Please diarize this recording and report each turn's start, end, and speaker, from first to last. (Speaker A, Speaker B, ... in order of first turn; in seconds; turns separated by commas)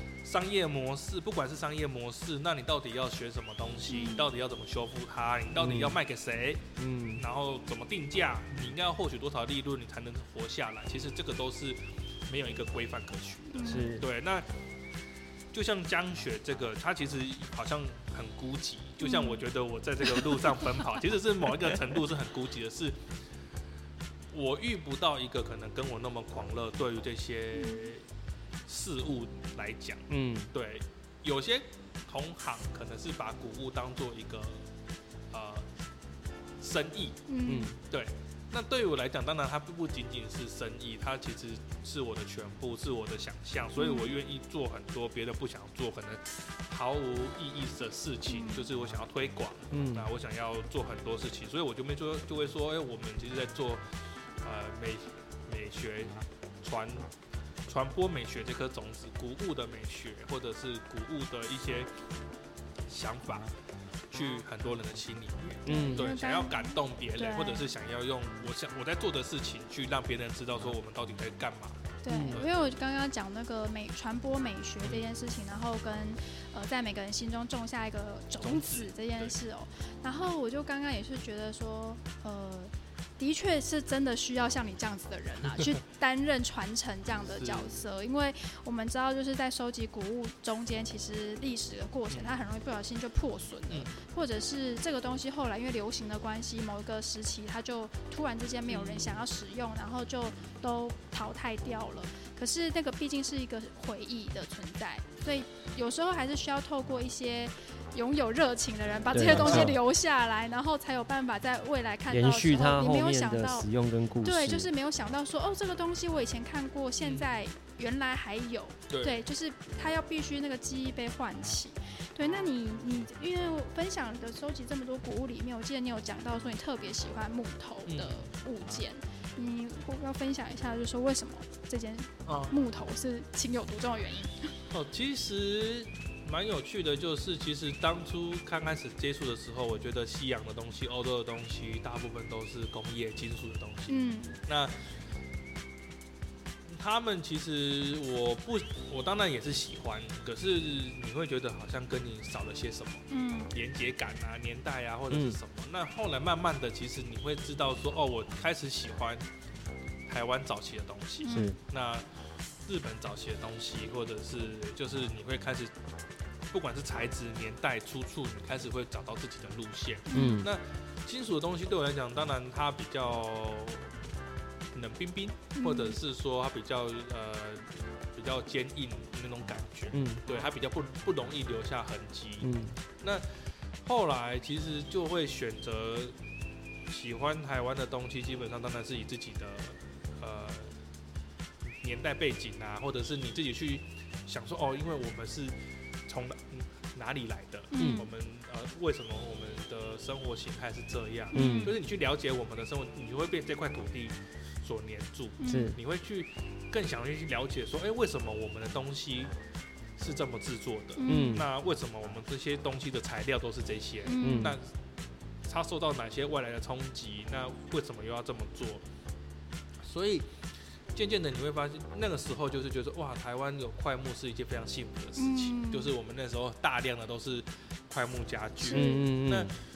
Speaker A: 0.2-11.8, Speaker B: 3.9-4.3, Speaker C: 5.6-6.0, Speaker C: 6.8-7.2, Speaker A: 12.3-14.5, Speaker B: 13.5-14.0, Speaker C: 13.7-14.1, Speaker A: 15.5-23.0, Speaker B: 19.0-19.4, Speaker A: 24.3-28.0, Speaker B: 27.6-27.9, Speaker A: 28.7-34.7, Speaker C: 30.1-30.5, Speaker A: 35.3-35.7, Speaker A: 36.6-53.8, Speaker B: 37.3-37.7, Speaker C: 37.5-37.8, Speaker B: 43.8-44.1, Speaker B: 48.3-48.7, Speaker C: 49.7-50.1, Speaker A: 54.4-57.1, Speaker A: 57.7-61.9, Speaker A: 62.9-63.5, Speaker A: 64.1-72.7, Speaker C: 65.7-66.1, Speaker B: 65.7-67.7, Speaker B: 72.0-113.7, Speaker C: 72.1-72.4, Speaker A: 74.8-75.1, Speaker A: 78.4-79.3, Speaker A: 87.3-87.8, Speaker A: 92.1-92.4, Speaker A: 98.7-99.2, Speaker C: 109.1-109.8, Speaker A: 109.3-109.7, Speaker C: 112.1-114.7, Speaker B: 114.2-134.5, Speaker A: 117.0-117.3, Speaker A: 118.9-119.2, Speaker A: 127.9-128.3, Speaker A: 132.2-132.6, Speaker A: 134.7-144.8, Speaker B: 143.9-144.4, Speaker A: 146.7-159.2, Speaker B: 153.1-153.5, Speaker C: 155.1-155.4, Speaker A: 160.1-162.1, Speaker B: 161.2-161.6, Speaker C: 161.3-161.6, Speaker A: 162.7-165.7, Speaker A: 166.5-173.9, Speaker B: 170.1-170.4, Speaker C: 170.1-170.5, Speaker A: 174.7-186.2, Speaker B: 175.6-176.0, Speaker C: 179.9-180.2, Speaker C: 182.4-182.8, Speaker A: 186.9-190.7, Speaker A: 191.7-209.3, Speaker B: 197.7-198.1, Speaker C: 197.8-198.1, Speaker B: 201.3-201.7, Speaker C: 201.3-201.8, Speaker B: 205.4-205.8, Speaker C: 205.5-205.8, Speaker A: 210.0-214.6, Speaker B: 211.0-211.4, Speaker C: 211.1-211.5, Speaker B: 214.1-214.6, Speaker C: 214.2-214.6, Speaker A: 215.4-218.8, Speaker A: 219.8-220.3, Speaker A: 220.9-229.5, Speaker B: 225.2-225.9, Speaker B: 228.6-229.1, Speaker C: 228.7-229.5